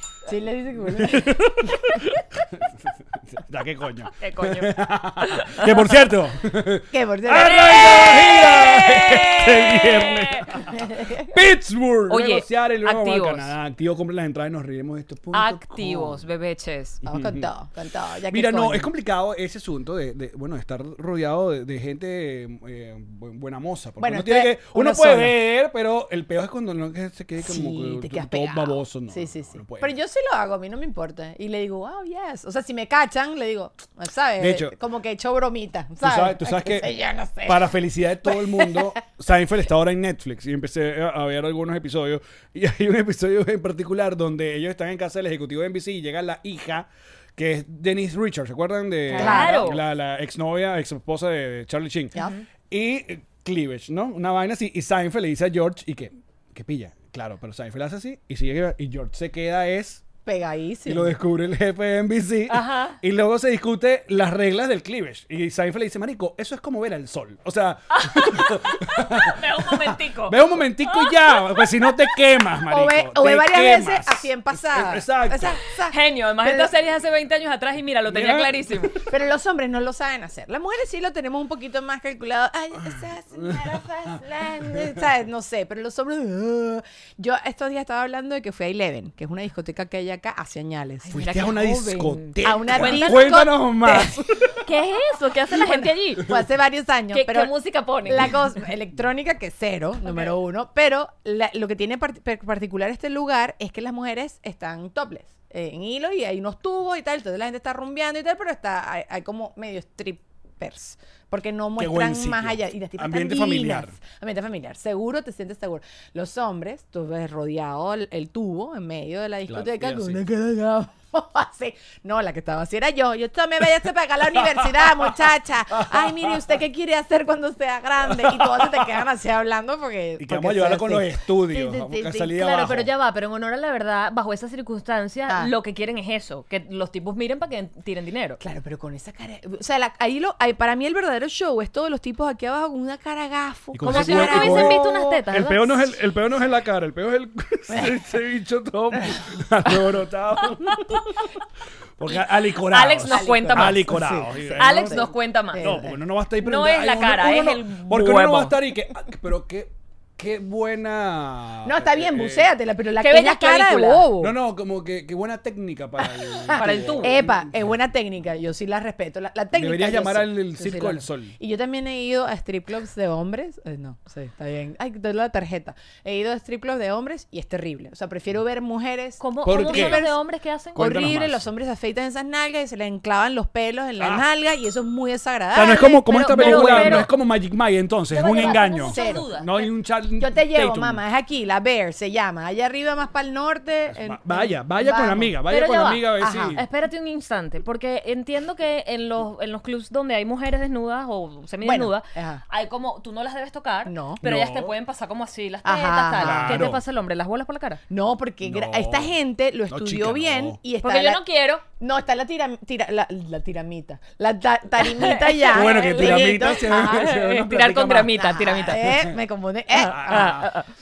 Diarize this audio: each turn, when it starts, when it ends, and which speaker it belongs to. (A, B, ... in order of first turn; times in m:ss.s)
0:00.2-0:01.7 A
0:00.9-0:16.2 B
0:04.2-0:05.8 C
0:06.9-0:08.2 A
0:07.4-0:10.5 C
0:10.7-0:11.3 A
0:12.1-0:13.5 C
0:15.3-0:17.0 C
0:17.0-0:17.5 B
0:17.0-0:18.9 A
0:18.3-0:29.9 B
0:24.0-0:25.4 A
0:27.4-0:39.0 A
0:34.4-0:34.7 B
0:36.0-0:52.2 B
0:49.1-0:49.7 A
0:49.1-0:49.8 C
0:52.7-1:00.0 B
1:00.2-1:01.2 A
1:00.8-1:15.6 B
1:02.5-1:03.0 C
1:07.9-1:11.6 C
1:12.7-1:16.7 A
1:15.9-1:19.0 C
1:18.1-1:19.0 B
1:19.0-1:34.2 A
1:22.8-1:25.0 B
1:31.1-1:33.4 C
1:31.1-1:34.6 B
1:34.6-1:36.3 C
1:35.6-1:37.5 A
1:37.1-1:38.4 C
1:38.0-2:12.4 A
1:40.0-1:40.3 C
1:51.8-1:54.0 B
1:59.5-2:00.2 B
2:04.3-2:06.5 B
2:08.0-2:08.9 B
2:10.2-2:12.9 B
2:12.3-2:18.4 C
2:18.4-2:25.1 A
2:23.7-2:31.1 B
2:23.8-2:25.9 C
2:27.7-2:27.9 A
2:32.0-2:42.5 B
2:32.1-2:35.7 C
2:33.0-2:36.0 A
2:36.4-2:38.6 C
2:41.6-2:44.3 A
2:43.0-2:44.1 C
2:44.2-2:47.7 B
2:46.0-3:00.2 A
2:46.6-2:47.2 C
2:49.5-2:51.3 B
2:59.2-3:00.8 C
2:59.4-3:00.0 B
3:00.7-3:01.5 B
3:00.7-3:07.1 A
3:04.0-3:04.3 B
3:05.5-3:11.0 B
3:06.1-3:07.1 C
3:08.1-3:09.7 C
3:08.4-3:09.2 A
3:10.2-3:15.4 A
3:13.9-3:16.6 B
3:15.5-3:27.8 C
3:16.2-3:16.6 A
3:21.6-3:22.4 A
3:23.8-3:24.2 A
3:24.2-3:24.7 B
3:25.6-3:26.6 A
3:26.2-3:26.8 B
3:27.9-3:31.2 A
3:28.4-3:29.1 B
3:29.7-3:30.6 B
3:30.8-3:31.6 C
3:31.7-3:37.1 A
3:34.8-3:39.0 C
3:35.5-3:39.1 B
3:38.1-3:40.4 A
3:39.7-3:40.7 C
3:39.8-3:40.5 B